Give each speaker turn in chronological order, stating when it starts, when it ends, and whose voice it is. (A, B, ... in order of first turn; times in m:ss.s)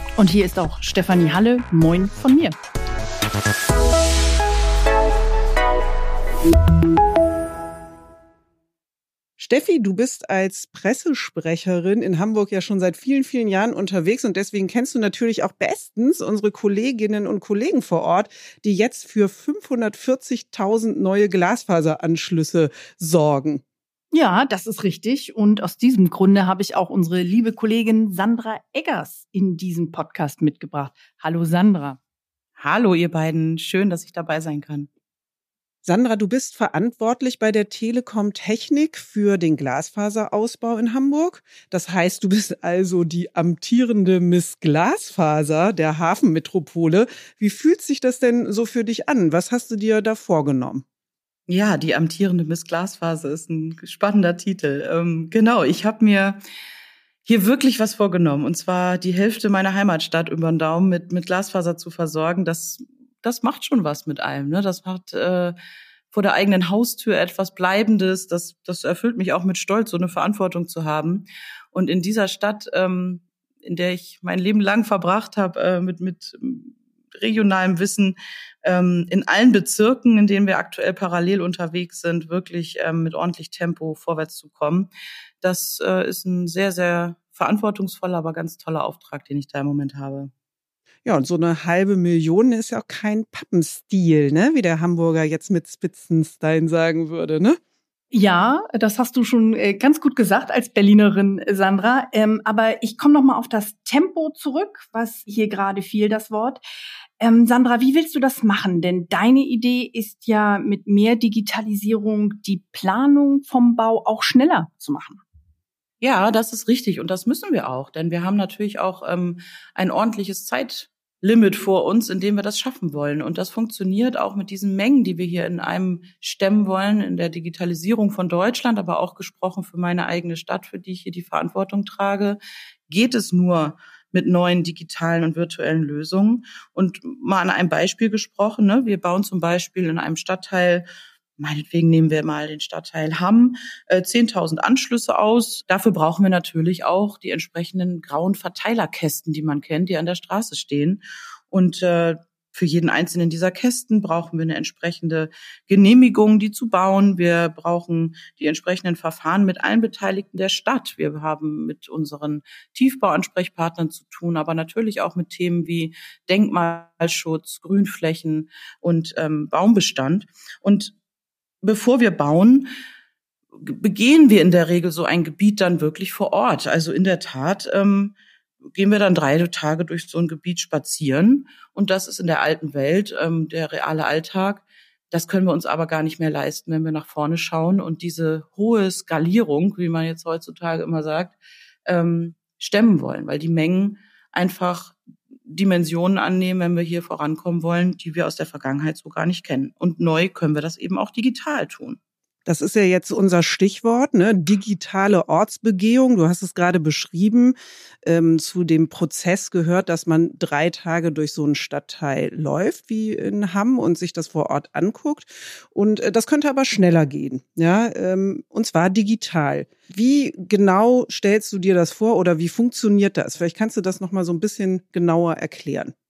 0:00.2-0:02.6 A
0:09.4-0:23.6 B
0:24.1-0:32.0 A
0:32.6-0:34.9 C
0:35.8-0:50.8 B
0:51.5-0:56.4 C
0:57.2-1:05.6 C
1:06.1-1:24.9 C
1:25.4-1:30.3 C
1:31.0-1:37.6 B
1:38.1-1:46.6 A
1:47.2-1:55.2 A
1:56.0-2:20.8 C
2:21.4-2:50.9 C
2:51.6-2:52.7 C
2:53.6-2:58.2 C
2:58.7-3:22.0 C
3:22.5-3:45.9 B